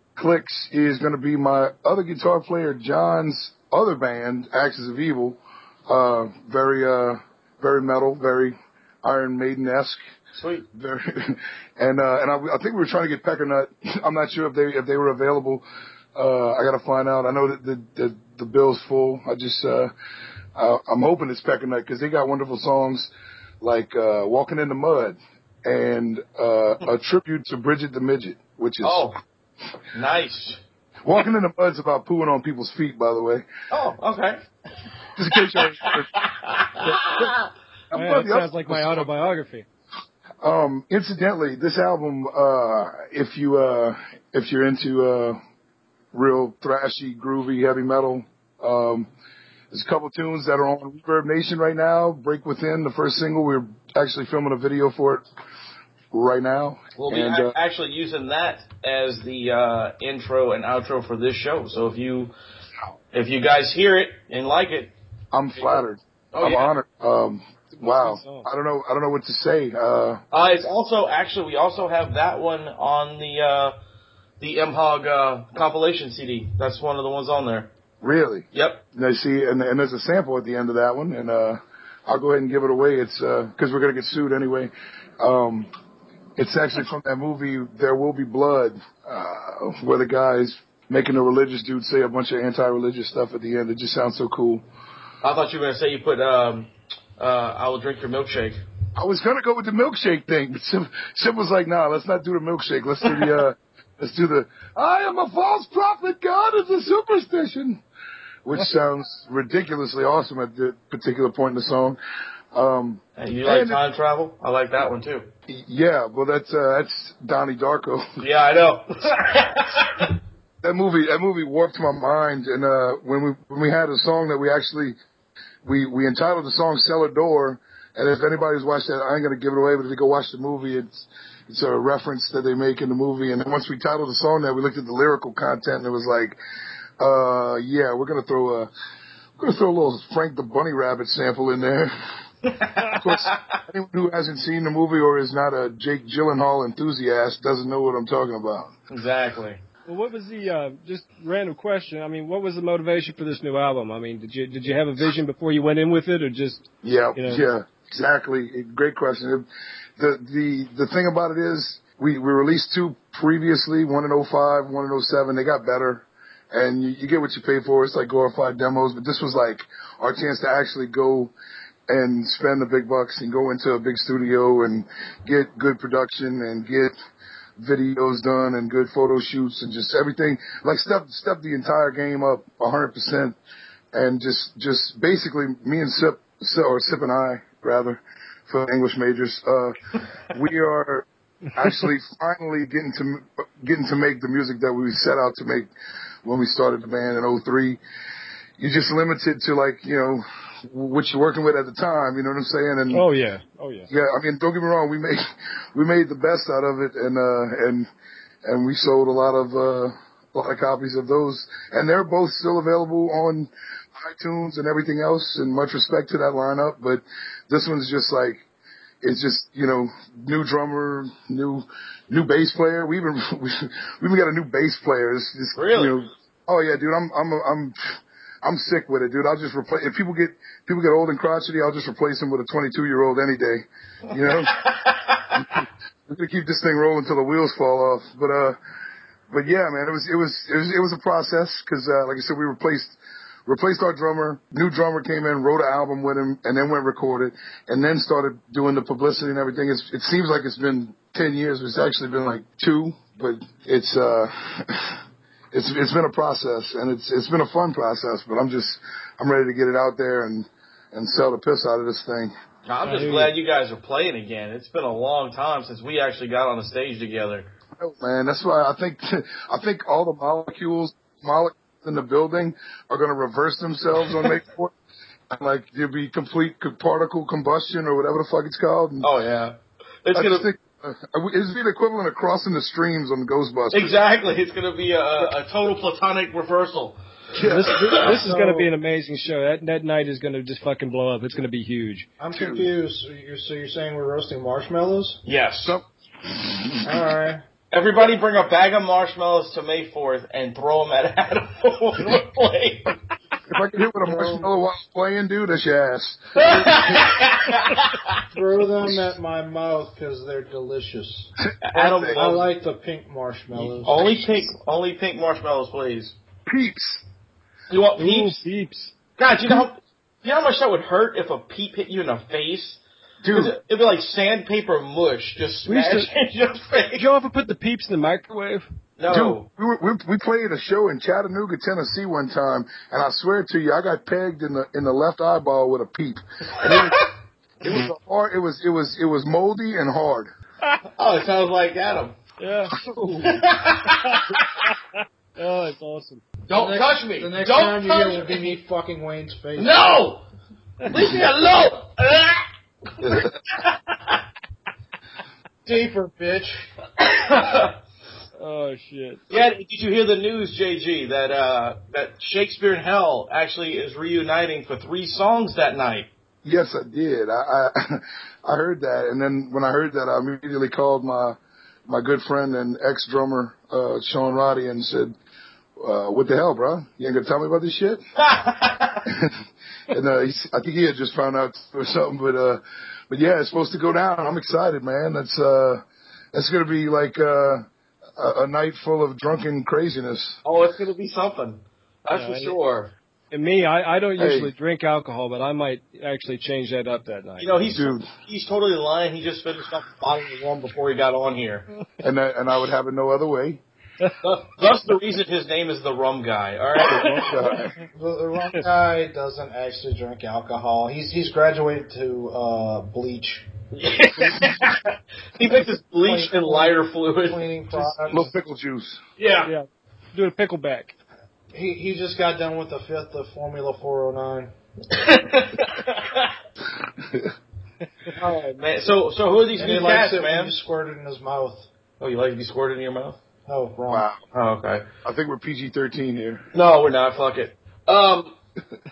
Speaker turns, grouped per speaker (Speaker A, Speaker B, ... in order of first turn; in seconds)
Speaker A: 0.1-10.0, 10.7-15.6, 16.1-19.9, 20.6-23.1, 23.6-29.1, 31.0-33.5, 35.1-36.1, 36.8-37.3, 37.9-39.1, 40.4-45.4, 46.1-49.1, 49.7-55.2, 56.1-57.5, 65.3-70.2, 78.0-85.7, 86.4-94.6, 99.0-107.8, 108.4-112.0, 112.5-113.8, 115.5-118.1, 120.6-124.9, 125.6-136.4, 137.0-138.7, 139.4-141.9, 143.0-148.7, 156.8-159.4, 160.0-171.3, 171.9-176.9, 177.6-183.4, 183.9-189.7, 190.3-195.7, 196.2-197.8, 198.6-203.1, 203.9-207.9, 208.4-218.4, 219.0-227.7, 228.4-234.5, 235.3-238.6, 239.3-255.0, 255.5-262.3, 267.8-274.7, 275.3-279.1, 280.1-283.9, 287.3-288.1, 292.3-292.7, 295.6-297.0, 303.5-306.9, 311.7-312.4, 316.5-317.0, 323.2-323.5, 329.1-337.0, 337.6-340.3, 342.7-343.4, 353.0-353.3, 366.4-371.4, 371.9-375.1, 375.8-378.0, 379.1-379.4, 379.9-385.8, 386.3-387.6, 388.2-390.4, 394.2-394.5, 397.7-398.1, 402.0-403.6, 406.8-407.7, 418.1-419.0, 427.0-427.3, 433.9-434.2, 435.0-436.4
Speaker B: 10.3-10.7, 28.8-29.2, 29.9-30.6, 33.7-34.4, 35.3-37.4, 57.0-62.3, 63.1-64.9, 66.3-66.7, 70.3-73.7, 74.4-77.7, 78.5-78.8, 95.2-98.6, 113.2-115.3, 118.2-120.1, 142.4-143.6, 148.9-149.6, 225.5-225.9, 234.1-235.4, 262.6-267.5, 279.0-280.5, 283.7-287.0, 287.7-288.1, 295.2-295.8, 297.7-302.9, 306.4-308.2, 311.6-312.4, 313.7-316.1, 317.7-318.4, 319.2-327.1, 329.0-329.5, 341.0-342.1, 343.2-344.4, 346.5-348.5, 349.6-350.2, 350.9-352.4, 353.1-353.7, 357.2-357.7, 359.3-366.1, 378.2-379.0, 390.4-392.9, 397.4-401.6, 404.2-407.1, 413.7-418.1, 419.2-419.5, 424.9-426.3, 428.1-430.5, 432.0-433.2, 434.3-434.9, 436.5-438.4
Speaker C: 37.9-39.6, 67.8-68.5, 149.9-157.4, 202.9-203.9, 262.8-263.3, 287.4-292.1, 318.0-318.9, 325.6-326.1, 326.9-328.6, 342.4-342.8, 344.0-344.8, 345.4-346.2, 358.4-359.2, 392.1-392.6, 393.3-397.5, 406.8-407.5, 419.4-420.9
Speaker D: 288.1-288.7, 292.2-295.2, 296.8-297.4, 304.0-304.5, 306.4-307.1, 308.3-311.3, 312.1-314.0, 346.5-349.9, 355.6-356.7, 407.9-413.5, 416.0-418.3, 421.5-424.5, 429.5-431.7, 433.5-434.1